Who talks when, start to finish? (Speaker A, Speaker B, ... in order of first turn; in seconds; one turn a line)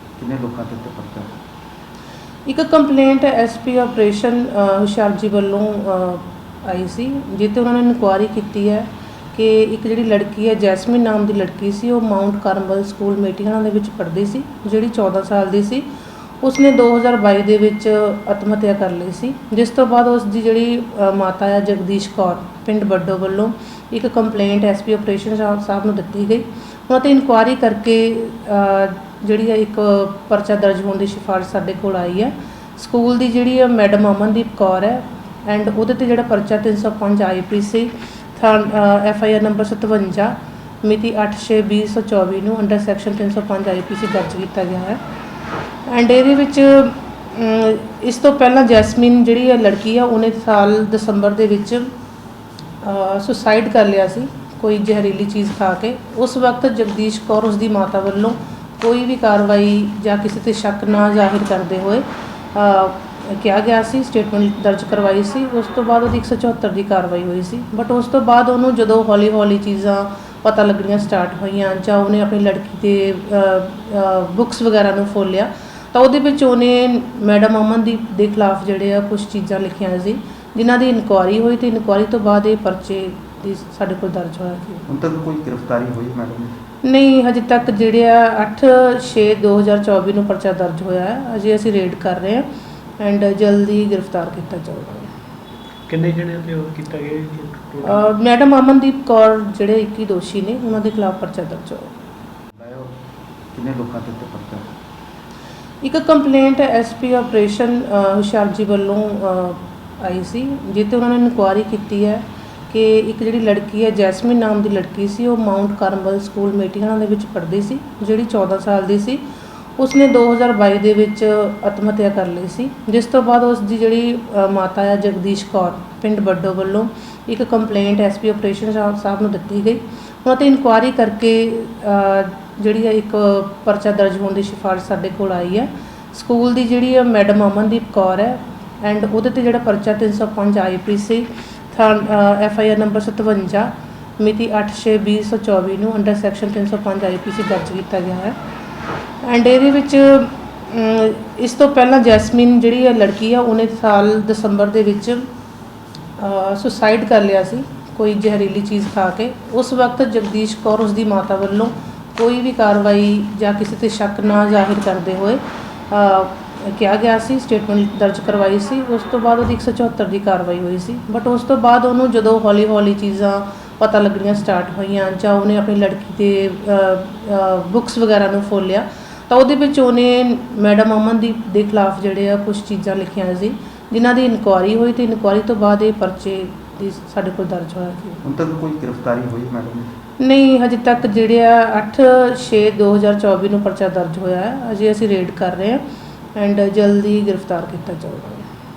Speaker A: 0.2-1.4
Speaker B: 2.5-15.9
Speaker B: 16.4-45.0
Speaker B: 45.9-51.9
Speaker B: 52.8-84.8
Speaker A: 84.9-86.6
Speaker B: 86.8-92.5
Speaker B: 93.0-95.1
Speaker C: 95.9-98.0
Speaker B: 97.8-101.9
Speaker A: 102.5-103.0
Speaker A: 103.5-104.7
Speaker B: 105.8-119.2
Speaker B: 119.8-148.4
Speaker B: 149.2-155.3
Speaker B: 156.2-188.2
Speaker A: 188.2-190.0
Speaker B: 190.2-195.8
Speaker B: 196.4-198.5